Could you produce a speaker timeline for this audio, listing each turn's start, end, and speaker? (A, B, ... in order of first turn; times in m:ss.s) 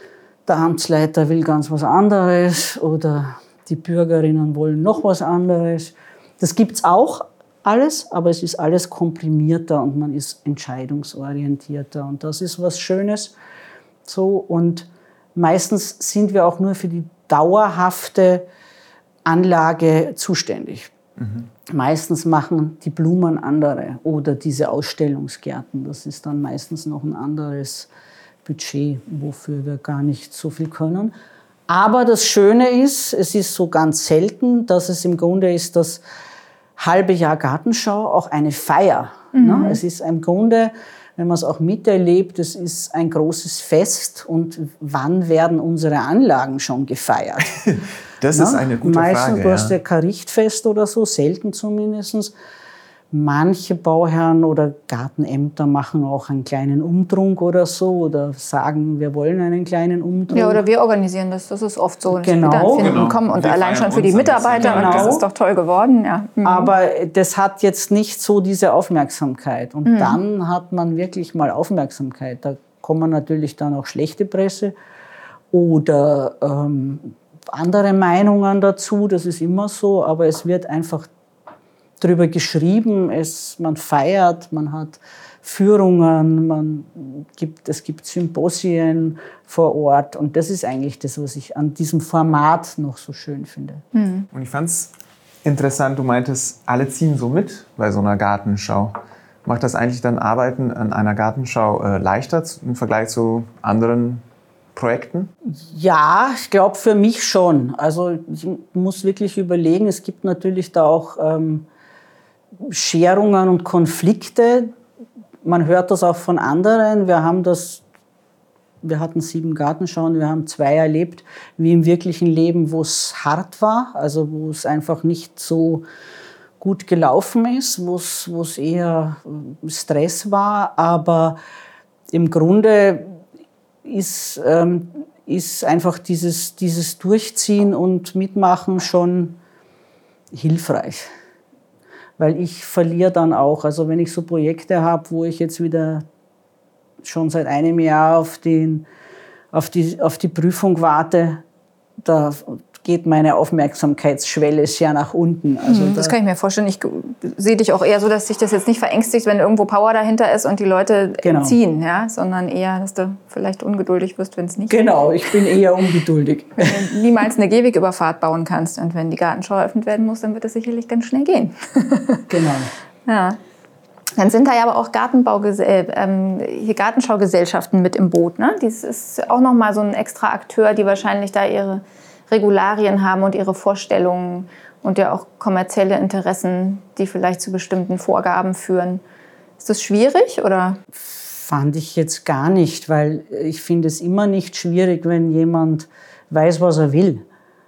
0:00.4-0:13.3 A
0:14.0-0:18.4 A
0:19.2-0:20.9 A
0:21.6-0:27.9 A
0:28.4-0:31.1 A
0:31.7-0:36.0 A
0:36.8-0:47.6 A
0:39.3-0:39.8 B
0:47.6-0:49.8 C
0:48.3-0:52.3 A
0:53.1-1:00.6 A
1:00.3-1:06.7 B
1:02.1-1:02.9 A
1:02.8-1:05.2 C
1:04.6-1:05.2 A
1:06.4-1:14.7 A
1:09.8-1:10.2 B
1:15.5-1:21.1 A
1:22.0-1:33.8 A
1:33.9-1:34.3 B
1:34.3-1:34.9 C
1:35.4-1:44.2 C
1:44.7-1:45.3 C
1:45.5-1:51.6 A
1:52.6-1:54.7 A
1:55.4-1:57.8 A
1:58.8-2:05.8 A
2:06.6-2:11.4 A
2:12.1-2:13.2 A
2:13.8-2:19.4 A
2:20.3-2:21.1 A
2:22.2-2:26.0 A
2:27.0-2:28.8 A
2:29.5-2:31.4 A
2:32.0-2:36.1 A
2:35.6-2:45.6 B
2:41.2-2:41.6 A
2:44.7-2:46.8 A
2:46.6-2:52.3 B
2:52.3-2:52.7 A
2:53.0-2:53.4 B
2:54.2-3:09.0 B
3:09.6-3:10.8 B
3:11.0-3:17.2 A